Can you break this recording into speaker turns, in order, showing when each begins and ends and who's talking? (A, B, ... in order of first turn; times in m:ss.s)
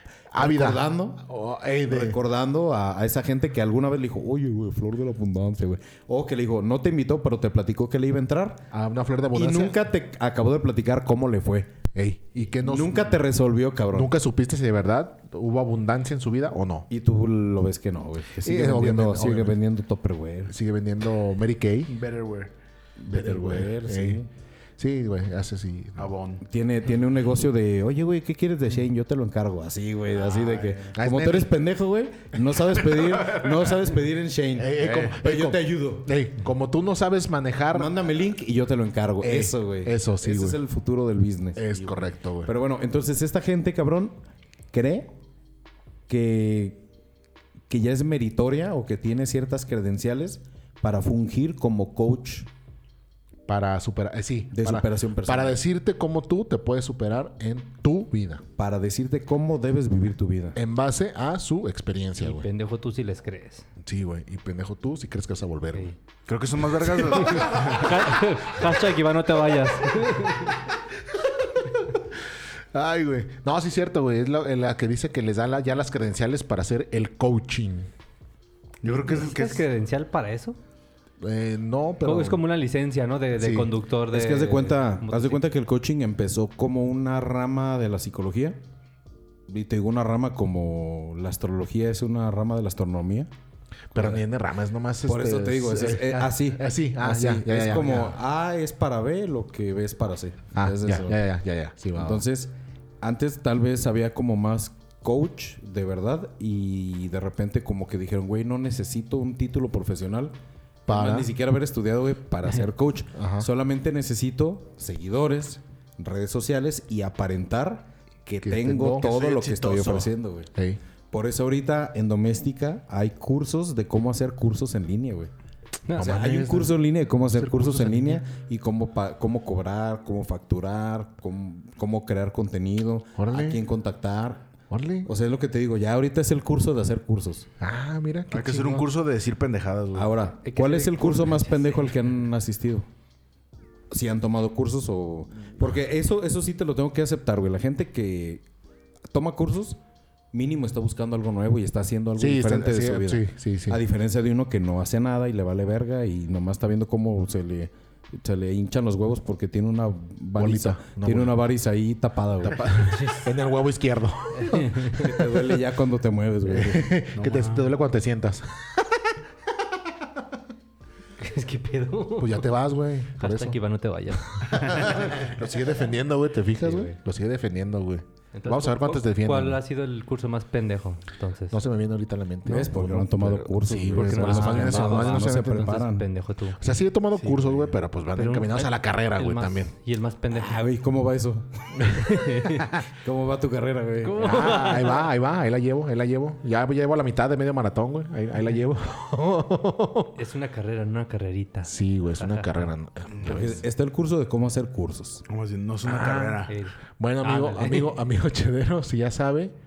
0:00.3-0:02.2 A
0:00.3-0:01.2 B
0:01.9-0:08.6 B
0:08.7-0:09.8 A
0:09.3-0:11.7 B
0:12.0-0:13.2 A
0:12.6-0:14.1 B
0:13.9-0:16.9 A
0:16.9-0:20.5 B
0:18.4-0:19.6 A
0:20.5-0:21.9 A
0:21.9-0:22.5 C
0:23.0-0:24.3 B
0:23.1-0:24.2 A
0:24.8-0:26.1 A
0:26.0-0:26.4 C
0:26.4-0:36.1 B
0:30.2-0:30.9 C
0:31.0-0:31.5 A
0:34.6-0:38.0 A
0:34.8-0:35.2 C
0:37.7-0:44.1 B
0:39.2-0:40.6 A
0:41.6-0:42.5 A
0:44.7-0:45.1 B
0:46.1-0:46.8 B
0:47.7-0:52.5 B
0:53.5-0:58.4 A
0:54.5-0:55.6 B
0:58.6-1:00.6 B
1:00.6-1:02.5 A
1:02.2-1:03.7 D
1:03.8-1:05.9 A
1:06.3-1:08.1 C
1:06.9-1:07.8 A
1:07.1-1:10.6 D
1:12.7-1:17.9 A
1:18.8-1:19.6 C
1:19.0-1:20.6 D
1:21.2-1:22.4 A
1:22.0-1:25.4 D
1:23.4-1:23.7 A
1:24.1-1:28.6 B
1:29.5-1:33.3 B
1:33.9-1:38.2 A
1:33.9-1:34.2 B
1:35.0-1:41.2 B
1:40.6-1:42.2 A
1:42.0-1:50.4 B
1:50.9-1:51.3 A
1:50.9-2:00.5 B
1:53.2-1:53.5 A
1:58.4-1:59.0 A
1:59.0-2:00.1 C
2:00.6-2:00.8 A
2:01.1-2:05.3 B
2:05.9-2:06.2 D
2:05.9-2:14.4 B
2:06.0-2:08.2 A
2:13.2-2:13.6 A
2:14.7-2:15.1 A
2:15.0-2:17.5 B
2:17.6-2:18.9 A
2:18.3-2:20.2 C
2:20.0-2:22.9 B
2:20.4-2:22.0 D
2:23.9-2:28.4 B
2:29.1-2:29.8 B
2:30.3-2:42.7 B
2:32.2-2:33.8 A
2:40.4-2:41.4 A
2:42.4-2:45.4 A
2:43.0-2:43.3 D
2:44.4-2:45.1 D
2:45.0-2:46.9 B
2:46.4-2:48.8 A
2:47.2-2:47.7 C
2:51.2-2:52.5 D
2:52.2-2:53.6 A
2:53.2-2:54.6 D
2:54.5-2:59.6 A
2:56.6-2:57.0 D
2:58.3-3:01.6 D
3:01.5-3:05.8 A
3:02.4-3:06.0 B
3:03.9-3:06.7 D
3:06.6-3:09.7 A
3:07.2-3:07.8 C
3:08.1-3:10.6 D
3:10.3-3:11.8 B
3:12.0-3:12.7 D
3:12.9-3:14.4 B
3:14.0-3:15.1 D
3:14.2-3:20.1 A
3:20.1-3:22.7 D
3:21.7-3:23.6 A
3:23.1-3:23.4 C
3:23.2-3:25.2 B
3:25.3-3:26.6 C
3:25.8-3:29.5 A
3:26.5-3:28.0 D